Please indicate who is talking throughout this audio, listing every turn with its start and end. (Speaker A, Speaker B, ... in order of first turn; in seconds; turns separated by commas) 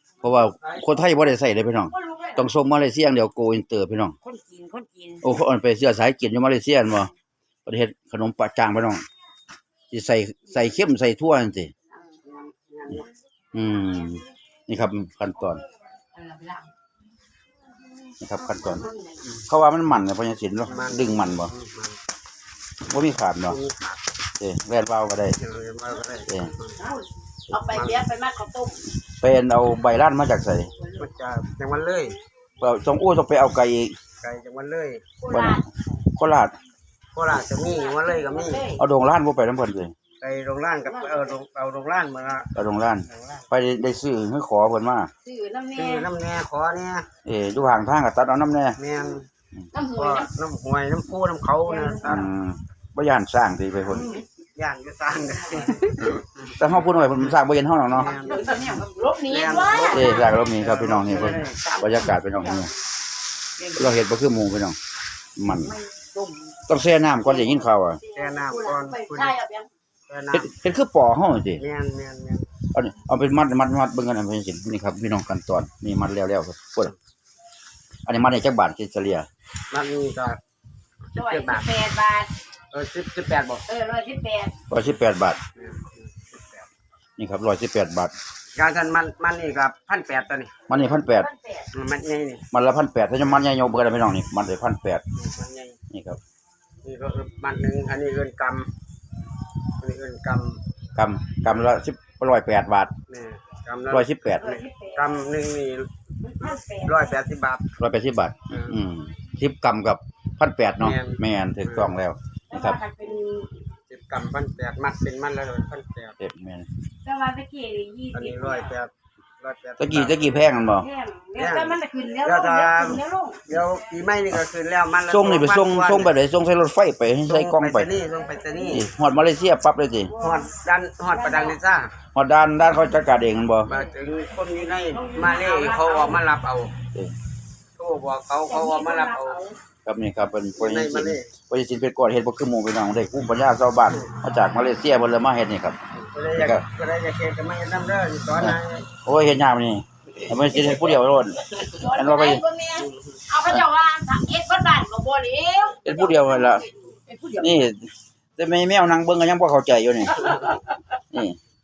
Speaker A: 0.2-4.2, Speaker B: 1.9-2.4, Speaker B: 4.2-5.2, Speaker A: 5.2-7.1, Speaker A: 7.7-9.0, Speaker A: 9.9-11.7, Speaker C: 12.2-13.1, Speaker A: 13.5-15.6, Speaker B: 16.1-16.7, Speaker A: 18.2-21.5, Speaker B: 18.6-19.2, Speaker C: 20.7-22.0, Speaker A: 22.9-23.6, Speaker C: 23.5-24.0, Speaker A: 24.4-25.4, Speaker C: 25.4-26.8, Speaker B: 26.8-28.8, Speaker C: 27.6-28.1, Speaker A: 29.0-30.7, Speaker C: 30.9-32.2, Speaker A: 32.6-34.0, Speaker C: 34.2-35.1, Speaker B: 35.2-35.6, Speaker A: 35.3-35.6, Speaker A: 36.1-36.5, Speaker C: 37.1-38.7, Speaker B: 37.9-38.8, Speaker A: 38.8-39.9, Speaker C: 40.2-42.5, Speaker B: 40.9-41.3, Speaker A: 42.5-45.1, Speaker C: 43.1-43.5, Speaker B: 45.2-46.1, Speaker C: 45.8-47.0, Speaker A: 47.2-48.8, Speaker C: 48.8-49.3, Speaker B: 49.7-50.3, Speaker C: 49.9-52.3, Speaker B: 51.7-52.0, Speaker A: 52.0-54.2, Speaker B: 53.9-54.2, Speaker C: 54.5-56.5, Speaker A: 56.6-58.2, Speaker C: 57.9-58.6, Speaker B: 58.1-60.3, Speaker C: 59.2-61.6, Speaker A: 59.9-62.7, Speaker B: 61.1-62.6, Speaker B: 63.6-63.9, Speaker A: 63.7-64.8, Speaker A: 65.4-65.8, Speaker B: 65.6-66.6, Speaker A: 66.7-68.0, Speaker B: 67.3-67.6, Speaker C: 68.1-69.4, Speaker B: 68.2-69.7, Speaker C: 70.1-70.5, Speaker A: 70.3-71.6, Speaker C: 71.6-72.5, Speaker A: 72.7-76.9, Speaker A: 78.1-79.3, Speaker C: 79.7-80.4, Speaker C: 81.1-81.7, Speaker B: 81.2-82.3, Speaker C: 82.7-83.6, Speaker B: 83.7-84.5, Speaker A: 84.7-85.4, Speaker C: 85.5-86.7, Speaker A: 87.2-88.1, Speaker C: 88.5-90.5, Speaker A: 90.7-91.3, Speaker B: 91.0-91.7, Speaker C: 91.7-92.4, Speaker A: 92.5-95.0, Speaker C: 95.1-95.8, Speaker A: 95.9-96.2, Speaker C: 96.8-98.7, Speaker C: 99.8-100.6, Speaker A: 101.0-102.9, Speaker C: 103.1-105.9, Speaker A: 103.9-104.5, Speaker B: 104.4-105.0, Speaker B: 106.2-107.2, Speaker C: 106.4-107.7, Speaker A: 107.8-112.8, Speaker C: 108.5-108.8, Speaker C: 110.8-111.9, Speaker B: 112.5-113.2, Speaker C: 113.0-116.2, Speaker A: 116.2-116.7, Speaker B: 117.0-118.7, Speaker C: 118.1-120.6, Speaker A: 119.8-120.9, Speaker B: 120.8-123.4, Speaker C: 121.3-126.2, Speaker A: 125.1-127.9, Speaker C: 127.2-128.9, Speaker A: 128.7-130.1, Speaker B: 130.1-130.4, Speaker C: 130.2-131.9, Speaker B: 131.2-131.6, Speaker A: 132.1-133.7, Speaker C: 133.6-136.7, Speaker B: 135.3-136.2, Speaker C: 137.8-139.5, Speaker B: 138.5-139.5, Speaker A: 139.8-145.8, Speaker C: 140.6-141.3, Speaker C: 145.9-148.9, Speaker A: 146.3-146.6, Speaker A: 148.4-152.4, Speaker B: 151.6-157.6, Speaker C: 152.8-153.2, Speaker A: 155.8-156.7, Speaker A: 157.4-160.4, Speaker A: 161.1-161.4